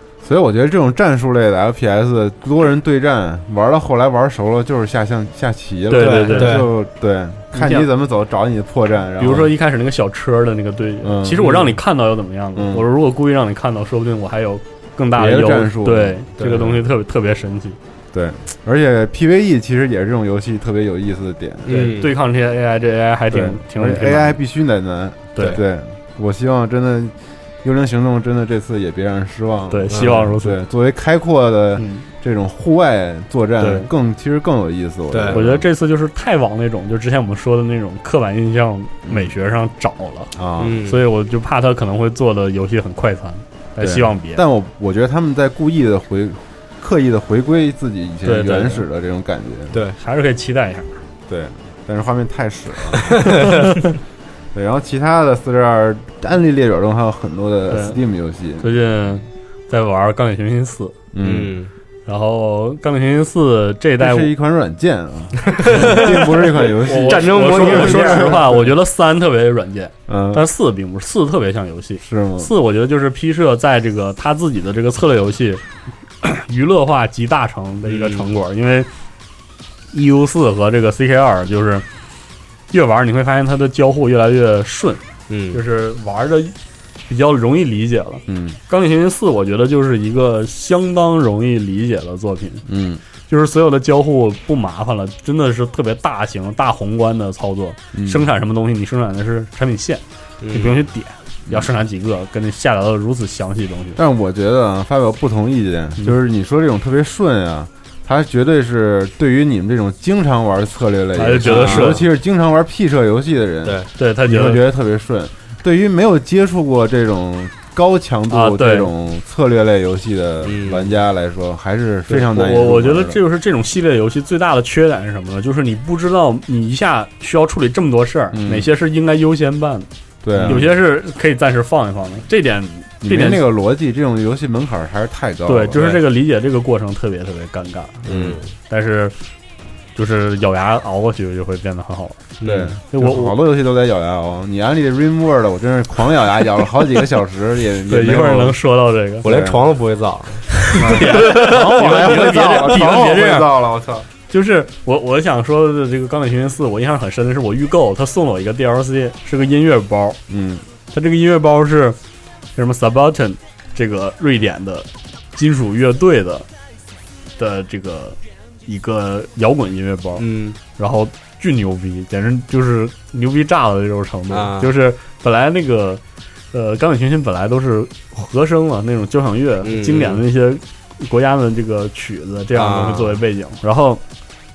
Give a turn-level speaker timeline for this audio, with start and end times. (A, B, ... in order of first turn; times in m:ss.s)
0:00.2-0:09.5 A
0:05.9-0:06.6 B
0:06.0-0:06.7 C
0:07.5-0:07.9 B
0:09.2-0:17.8 B
0:11.0-0:11.6 A
0:12.6-0:12.9 A
0:15.1-0:16.7 A
0:16.4-0:16.7 C
0:18.1-0:22.0 A
0:21.7-0:22.1 C
0:21.9-0:24.4 B
0:23.3-0:35.7 A
0:29.7-0:30.6 B
0:29.9-0:30.3 C
0:31.8-0:32.0 B
0:33.6-0:33.9 B
0:35.1-0:35.4 C
0:35.3-0:40.3 B
0:39.0-0:39.3 A
0:40.4-0:40.8 A
0:40.6-0:41.0 C
0:40.9-0:44.4 B
0:43.8-0:49.8 A
0:48.2-0:48.8 B
0:49.7-0:50.0 C
0:50.0-0:51.0 B
0:51.3-0:53.7 A
0:53.3-0:53.5 C
0:54.5-0:58.7 A
0:57.7-0:58.0 B
0:58.6-1:01.0 B
1:01.1-1:01.6 A
1:01.2-1:01.7 C
1:02.1-1:04.3 B
1:04.0-1:08.6 A
1:05.6-1:08.6 C
1:05.8-1:06.1 B
1:06.8-1:15.6 B
1:10.1-1:10.4 A
1:12.0-1:12.5 A
1:16.2-1:18.9 B
1:17.8-1:18.2 C
1:19.9-1:21.8 B
1:22.7-1:26.6 B
1:25.3-1:25.6 C
1:27.1-1:32.6 B
1:28.3-1:28.6 A
1:32.7-1:33.0 A
1:33.3-1:44.0 B
1:37.9-1:38.3 A
1:40.4-1:40.7 C
1:44.0-2:03.2 A
1:51.2-1:52.0 B
1:51.4-1:52.0 C
1:54.0-1:54.6 B
1:58.3-1:58.9 B
2:00.4-2:01.0 C
2:02.1-2:13.4 B
2:08.3-2:08.7 A
2:10.2-2:10.8 A
2:13.0-2:16.0 A
2:15.5-2:18.0 B
2:18.0-2:18.4 A
2:18.0-2:18.5 C
2:18.7-2:19.2 B
2:20.0-2:22.2 B
2:22.4-2:22.7 C
2:22.4-2:28.6 A
2:22.9-2:23.4 B
2:27.9-2:29.3 B
2:29.2-2:32.1 C
2:29.2-2:29.6 A
2:30.6-2:33.5 B
2:30.8-2:34.1 A
2:34.3-2:40.2 B
2:40.3-2:40.6 A
2:40.9-2:42.0 B
2:42.6-2:46.5 B
2:47.4-2:50.2 B
2:50.2-2:50.6 C
2:50.8-2:56.0 B
2:54.3-2:54.7 C
2:56.5-3:04.0 B
2:59.6-3:00.2 C
3:02.5-3:03.2 C